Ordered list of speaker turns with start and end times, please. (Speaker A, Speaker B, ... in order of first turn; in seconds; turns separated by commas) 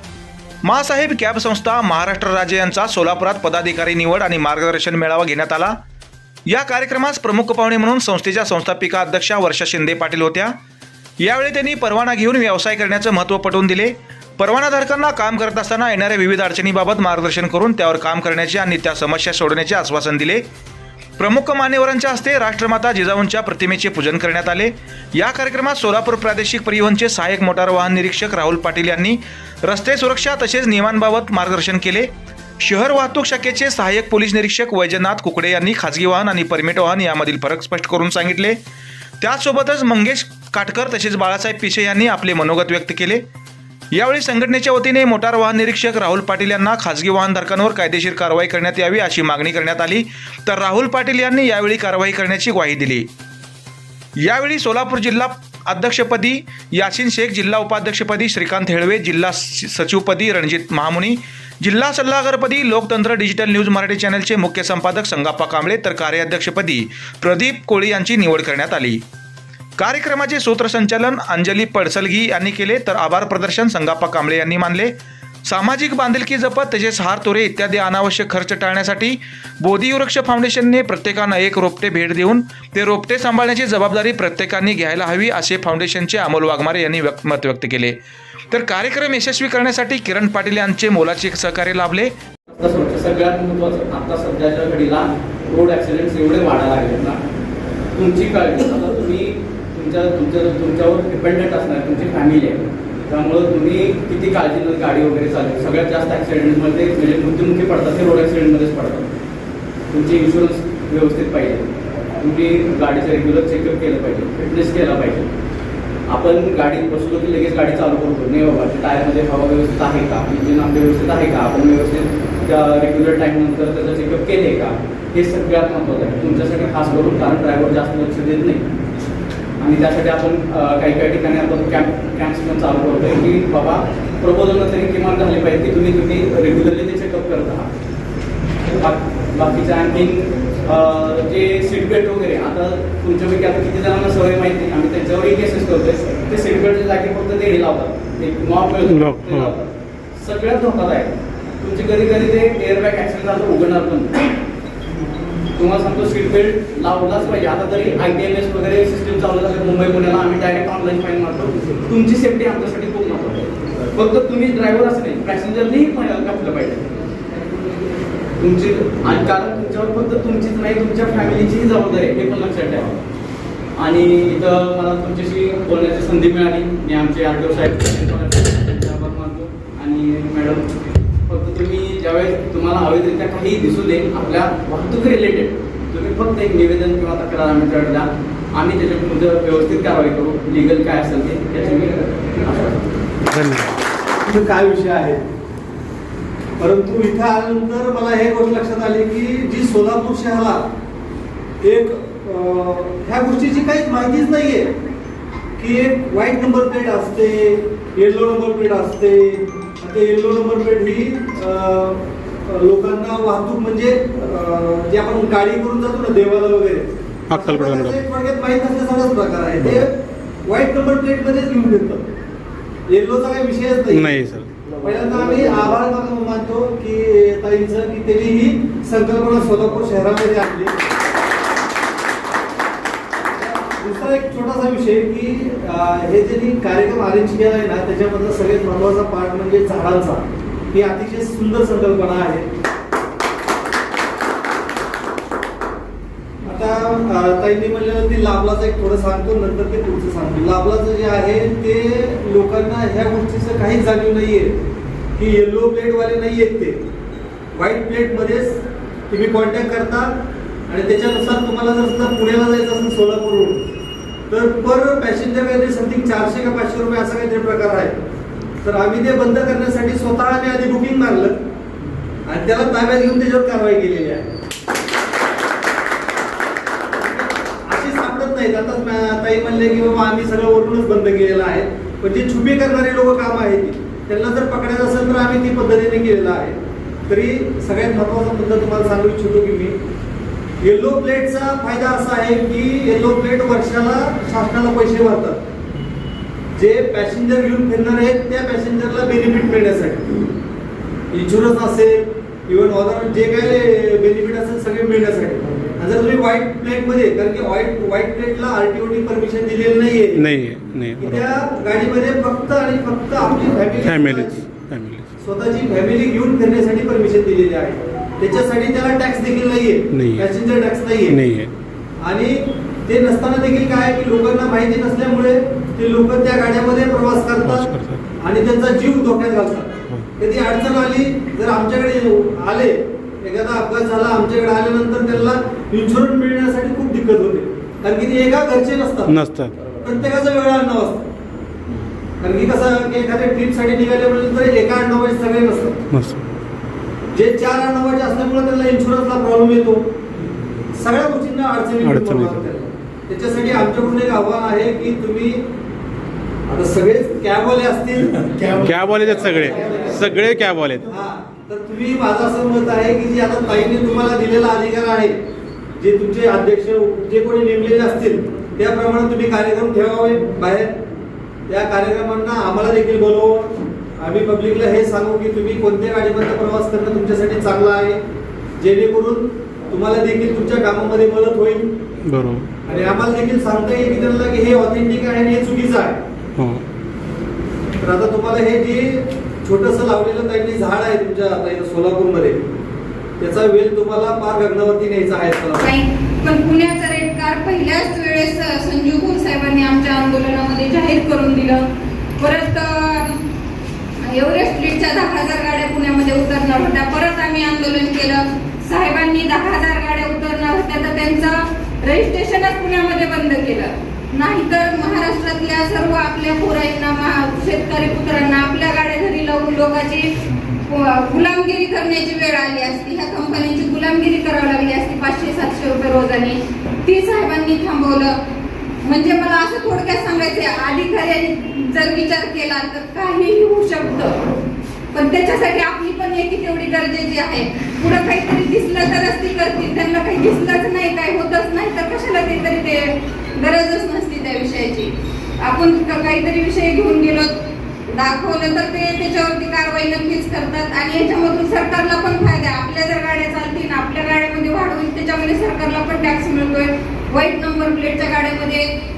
Speaker A: 0.6-5.8, Speaker A: 6.5-10.5, Speaker A: 11.2-20.4, Speaker A: 21.2-38.6, Speaker A: 39.2-43.2, Speaker A: 43.9-53.1, Speaker A: 54.2-69.0, Speaker A: 69.8-74.9, Speaker A: 75.5-88.0, Speaker A: 88.5-92.1, Speaker B: 92.5-97.2, Speaker B: 98.0-109.1, Speaker B: 109.9-115.3, Speaker B: 116.1-128.7, Speaker B: 129.6-137.7, Speaker B: 138.7-154.2, Speaker C: 148.9-149.5, Speaker B: 155.5-166.9, Speaker B: 168.4-172.9, Speaker B: 173.8-180.6, Speaker B: 181.3-192.8, Speaker C: 193.3-193.8, Speaker D: 194.2-195.2, Speaker D: 196.6-200.7, Speaker D: 201.6-204.7, Speaker D: 205.6-222.1, Speaker C: 217.3-217.9, Speaker D: 222.9-224.1, Speaker C: 224.0-224.6, Speaker D: 224.8-230.7, Speaker D: 233.4-242.5, Speaker D: 246.4-254.6, Speaker D: 255.2-256.8, Speaker D: 257.5-260.1, Speaker D: 260.7-263.6, Speaker D: 264.3-268.0, Speaker D: 268.6-271.4, Speaker D: 272.2-274.4, Speaker D: 277.0-289.8, Speaker D: 290.6-295.4, Speaker D: 296.5-300.1, Speaker D: 301.1-310.2, Speaker C: 310.2-311.1, Speaker D: 311.0-314.5, Speaker C: 313.9-315.1, Speaker D: 315.2-321.2, Speaker C: 319.9-320.2, Speaker C: 321.1-321.5, Speaker D: 322.0-339.2, Speaker C: 327.5-328.0, Speaker C: 339.1-339.5, Speaker D: 339.8-341.1, Speaker D: 342.2-345.8, Speaker C: 345.9-346.2, Speaker D: 347.1-349.9, Speaker D: 350.7-355.4, Speaker C: 351.8-352.4, Speaker D: 356.5-360.1, Speaker C: 358.6-360.9, Speaker D: 360.9-365.1, Speaker D: 365.8-370.7, Speaker D: 371.5-378.0, Speaker D: 378.6-381.7, Speaker C: 382.1-382.5, Speaker D: 382.6-386.0, Speaker C: 386.3-386.6, Speaker D: 387.8-392.4, Speaker D: 393.2-395.7, Speaker E: 395.6-401.6, Speaker E: 402.2-403.2, Speaker E: 404.0-428.2, Speaker E: 428.8-434.2, Speaker E: 434.9-447.4, Speaker E: 447.9-458.7